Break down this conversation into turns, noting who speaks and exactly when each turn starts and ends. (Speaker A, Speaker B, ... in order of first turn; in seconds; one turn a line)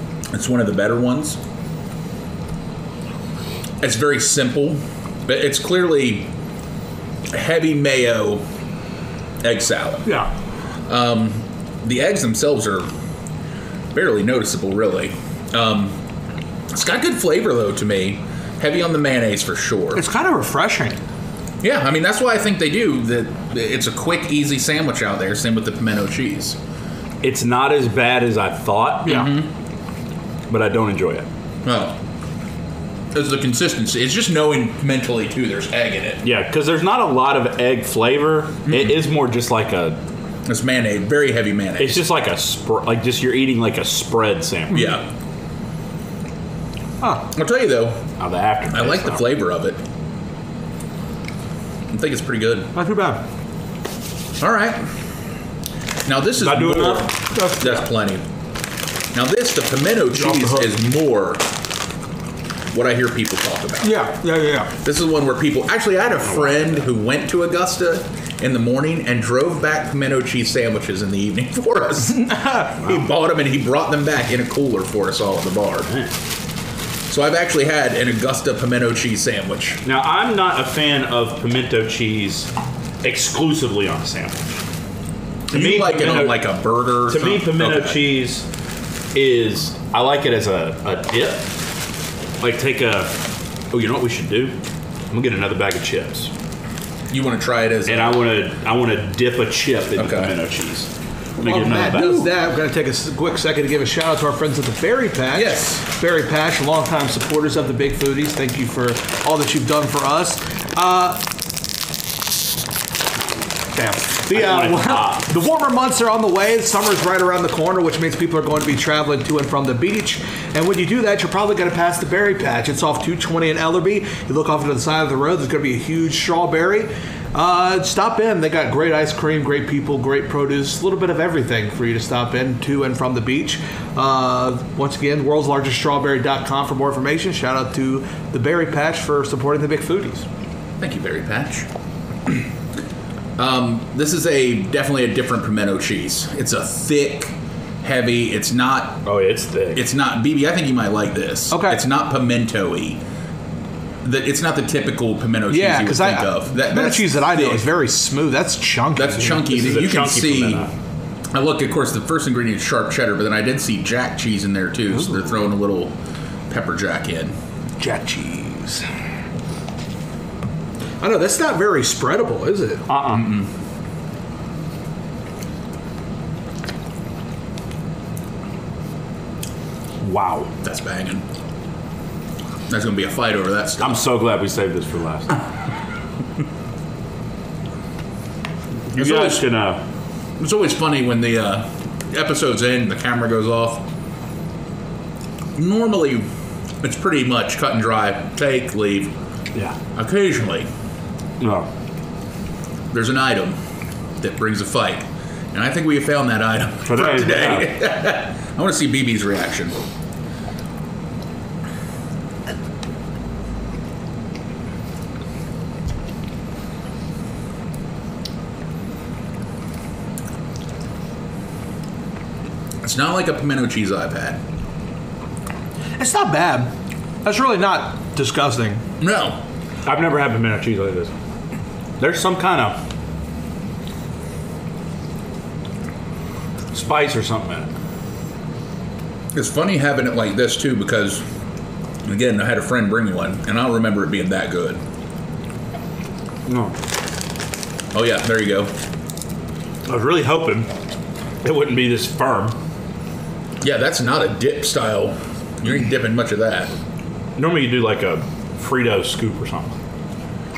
Speaker A: 0.3-1.4
Speaker A: 3.8-6.3
Speaker A: 7.3-8.4
Speaker A: 9.4-10.2
Speaker A: 10.9-12.9
Speaker A: 13.9-16.0
Speaker A: 16.7-20.0
Speaker B: 19.9-21.0
Speaker A: 21.6-26.6
Speaker C: 27.2-29.3
Speaker A: 29.1-29.5
Speaker C: 30.5-31.2
Speaker A: 31.6-32.0
Speaker A: 33.1-36.2
Speaker C: 36.2-40.0
Speaker A: 38.7-39.0
Speaker A: 40.5-42.0
Speaker C: 41.8-45.0
Speaker A: 44.7-45.0
Speaker B: 44.7-45.0
Speaker B: 47.0-47.3
Speaker A: 47.3-48.0
Speaker C: 48.2-49.2
Speaker A: 48.7-49.8
Speaker A: 51.9-52.7
Speaker B: 52.7-53.2
Speaker A: 54.4-54.9
Speaker A: 56.0-58.2
Speaker C: 56.4-57.1
Speaker B: 57.3-57.8
Speaker A: 59.1-61.4
Speaker B: 60.1-60.7
Speaker A: 62.7-64.0
Speaker B: 63.8-64.7
Speaker A: 64.8-75.9
Speaker C: 66.2-66.7
Speaker B: 72.2-72.5
Speaker C: 72.7-73.0
Speaker C: 75.9-76.1
Speaker A: 77.1-79.8
Speaker C: 79.8-82.5
Speaker C: 83.0-84.5
Speaker A: 85.5-88.0
Speaker C: 85.5-86.5
Speaker C: 87.0-88.5
Speaker C: 89.1-91.5
Speaker C: 92.4-94.6
Speaker C: 95.1-96.3
Speaker A: 97.1-98.3
Speaker C: 97.8-102.2
Speaker A: 100.0-100.3
Speaker B: 101.4-111.2
Speaker A: 105.3-105.8
Speaker B: 113.7-140.2
Speaker C: 114.3-115.3
Speaker A: 140.8-141.7
Speaker A: 143.4-149.0
Speaker C: 149.0-149.8
Speaker A: 149.7-153.0
Speaker B: 151.5-151.8
Speaker A: 154.0-157.7
Speaker B: 155.5-159.4
Speaker A: 158.9-160.7
Speaker C: 159.3-160.7
Speaker A: 161.3-165.9
Speaker A: 166.5-167.3
Speaker B: 167.8-168.8
Speaker B: 171.0-172.8
Speaker C: 172.9-173.3
Speaker A: 173.1-173.5
Speaker C: 180.0-180.5
Speaker A: 180.6-181.2
Speaker A: 182.7-184.0
Speaker C: 183.8-185.4
Speaker C: 188.9-189.8
Speaker A: 188.9-189.4
Speaker A: 190.4-193.9
Speaker A: 195.5-196.3
Speaker A: 196.8-199.1
Speaker A: 199.9-200.7
Speaker C: 201.4-201.7
Speaker A: 202.9-203.6
Speaker A: 204.2-209.8
Speaker C: 206.8-207.7
Speaker A: 222.8-224.4
Speaker B: 226.0-226.7
Speaker B: 227.2-228.8
Speaker A: 229.0-229.4
Speaker C: 229.8-231.1
Speaker C: 232.0-232.8
Speaker C: 236.7-237.7
Speaker A: 239.3-241.2
Speaker A: 242.0-244.8
Speaker C: 246.5-246.7
Speaker A: 247.9-248.7
Speaker C: 249.9-250.7
Speaker C: 251.4-252.6
Speaker A: 253.6-256.7
Speaker C: 257.4-259.8